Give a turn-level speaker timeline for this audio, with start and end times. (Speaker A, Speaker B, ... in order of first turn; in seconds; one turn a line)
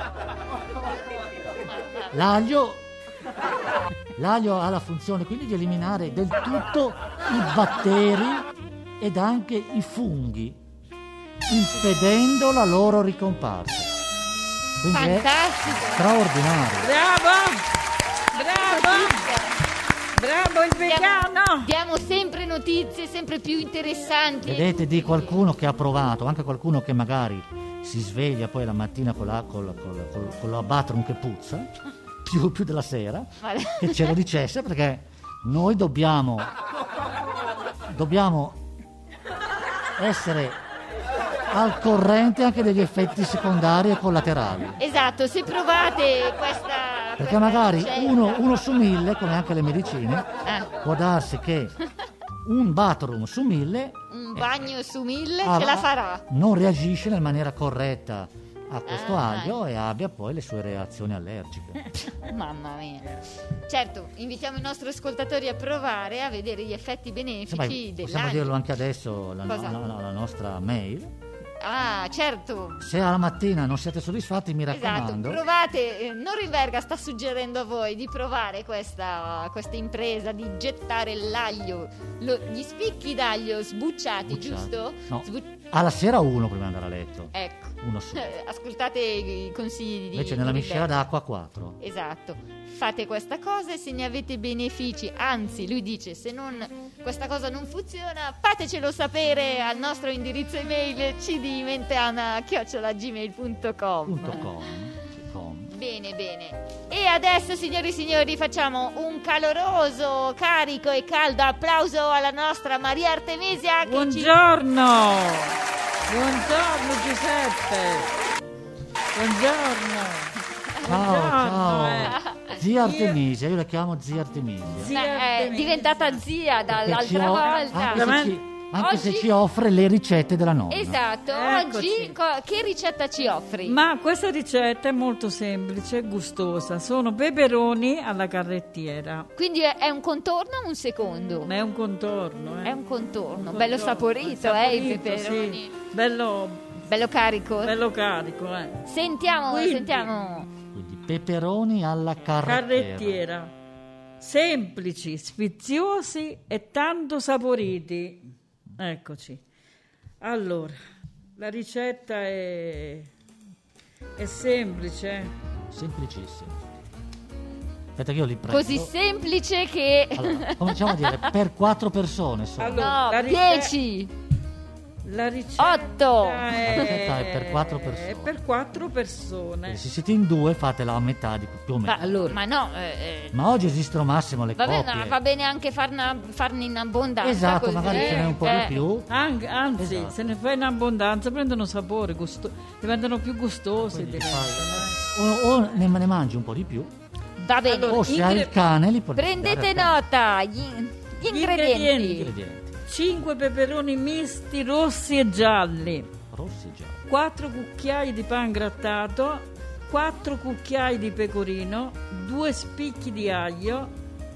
Speaker A: 1.7-2.1
Speaker B: 2.1-2.8
Speaker B: 4.2-8.5
Speaker B: 9.0-10.6
Speaker B: 11.5-13.9
Speaker B: 14.8-16.9
Speaker A: 14.9-16.1
Speaker C: 16.8-17.6
Speaker C: 18.3-19.3
Speaker A: 18.3-19.6
Speaker C: 20.1-21.7
Speaker A: 20.9-25.4
Speaker B: 24.4-31.7
Speaker B: 32.2-36.5
Speaker A: 33.4-34.2
Speaker B: 37.9-38.6
Speaker B: 40.0-40.6
Speaker B: 41.5-44.8
Speaker A: 44.8-48.5
Speaker B: 47.2-51.8
Speaker A: 50.4-50.7
Speaker B: 52.4-54.7
Speaker A: 54.1-56.2
Speaker B: 55.4-61.9
Speaker A: 58.9-59.6
Speaker A: 62.1-68.6
Speaker B: 67.5-71.1
Speaker A: 69.5-69.8
Speaker A: 71.6-72.8
Speaker B: 72.8-75.4
Speaker A: 74.7-85.5
Speaker B: 84.3-88.3
Speaker A: 87.3-90.9
Speaker B: 90.1-91.8
Speaker A: 91.8-104.6
Speaker B: 104.0-105.7
Speaker A: 105.7-114.3
Speaker C: 113.8-115.6
Speaker C: 116.1-118.1
Speaker C: 119.1-122.2
Speaker B: 120.8-124.9
Speaker A: 122.1-122.6
Speaker C: 122.8-123.2
Speaker C: 124.7-126.2
Speaker A: 124.8-128.2
Speaker B: 126.7-131.0
Speaker C: 127.0-128.4
Speaker A: 128.8-129.3
Speaker A: 130.7-133.8
Speaker C: 131.3-132.2
Speaker C: 133.6-139.3
Speaker A: 139.4-141.5
Speaker C: 141.5-142.8
Speaker A: 142.7-145.7
Speaker C: 143.3-146.8
Speaker A: 146.8-147.8
Speaker C: 147.6-148.8
Speaker A: 148.8-150.5
Speaker C: 149.5-150.1
Speaker B: 150.7-153.2
Speaker C: 152.4-153.5
Speaker C: 154.2-159.4
Speaker C: 160.2-160.8
Speaker C: 161.4-163.1
Speaker C: 164.2-165.3
Speaker B: 165.7-166.6
Speaker B: 168.0-168.9
Speaker A: 168.5-171.3
Speaker B: 170.2-172.9
Speaker C: 172.6-173.8
Speaker A: 172.7-174.1
Speaker C: 175.1-179.8
Speaker A: 175.6-177.0
Speaker B: 176.6-178.3
Speaker B: 179.7-182.0
Speaker A: 181.8-183.4
Speaker C: 182.0-182.4
Speaker B: 183.3-185.2
Speaker A: 184.6-188.8
Speaker B: 187.2-189.1
Speaker C: 187.9-195.0
Speaker B: 189.8-190.2
Speaker B: 193.9-196.9
Speaker A: 197.4-198.5
Speaker C: 197.6-198.5
Speaker B: 197.9-200.0
Speaker A: 199.2-202.3
Speaker C: 201.3-202.3
Speaker B: 202.2-202.8
Speaker C: 202.9-206.1
Speaker B: 206.3-207.1
Speaker C: 207.1-213.9